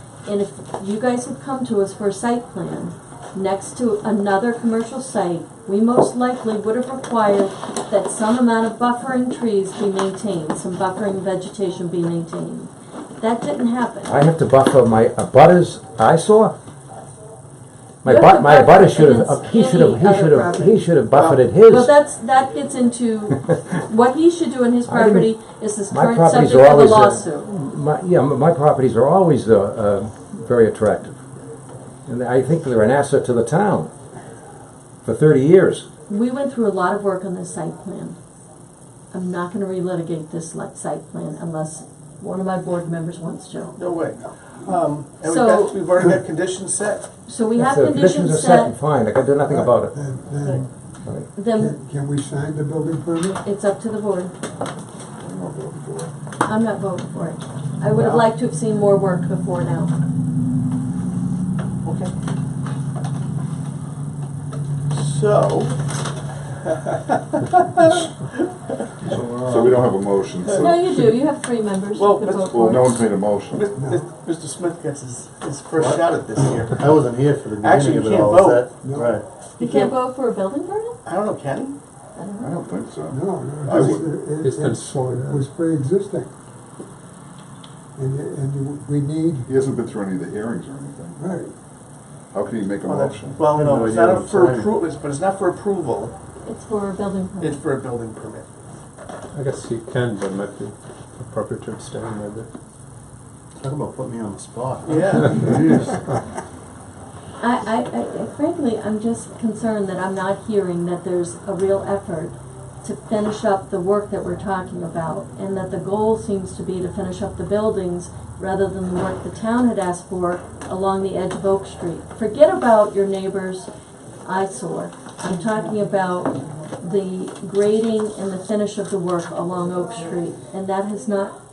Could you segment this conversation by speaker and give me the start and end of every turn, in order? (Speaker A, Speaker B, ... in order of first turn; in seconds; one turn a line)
Speaker A: 0.2-14.2
Speaker B: 14.1-16.5
Speaker B: 18.0-21.9
Speaker A: 18.1-20.9
Speaker A: 21.6-27.5
Speaker B: 24.9-25.3
Speaker B: 25.9-31.2
Speaker B: 32.1-33.9
Speaker B: 35.0-35.9
Speaker A: 36.1-38.2
Speaker A: 39.1-43.8
Speaker C: 43.8-47.1
Speaker A: 45.2-45.8
Speaker A: 47.3-48.8
Speaker B: 47.5-50.0
Speaker D: 49.5-50.7
Speaker A: 51.3-51.8
Speaker D: 51.5-53.4
Speaker A: 53.4-54.3
Speaker E: 55.2-56.1
Speaker A: 56.4-59.9
Speaker C: 58.0-58.2
Speaker C: 61.8-62.1
Speaker C: 64.9-65.9
Speaker C: 66.6-68.8
Speaker D: 69.1-69.7
Speaker E: 69.3-71.1
Speaker A: 70.5-72.9
Speaker C: 72.0-72.6
Speaker E: 72.4-73.8
Speaker C: 73.5-77.0
Speaker D: 73.8-74.1
Speaker F: 76.7-79.2
Speaker C: 77.6-78.7
Speaker D: 78.8-79.2
Speaker C: 79.6-80.0
Speaker A: 79.6-81.0
Speaker C: 81.0-81.8
Speaker A: 82.2-82.6
Speaker E: 82.4-84.2
Speaker D: 83.1-86.3
Speaker G: 84.4-85.5
Speaker D: 88.0-89.5
Speaker E: 89.5-91.2
Speaker D: 91.2-91.5
Speaker E: 92.3-93.5
Speaker C: 92.8-96.1
Speaker F: 93.5-94.7
Speaker A: 96.4-97.6
Speaker C: 97.4-98.5
Speaker G: 99.3-102.5
Speaker F: 103.6-105.8
Speaker C: 104.8-105.5
Speaker A: 107.4-123.7
Speaker A: 124.2-131.4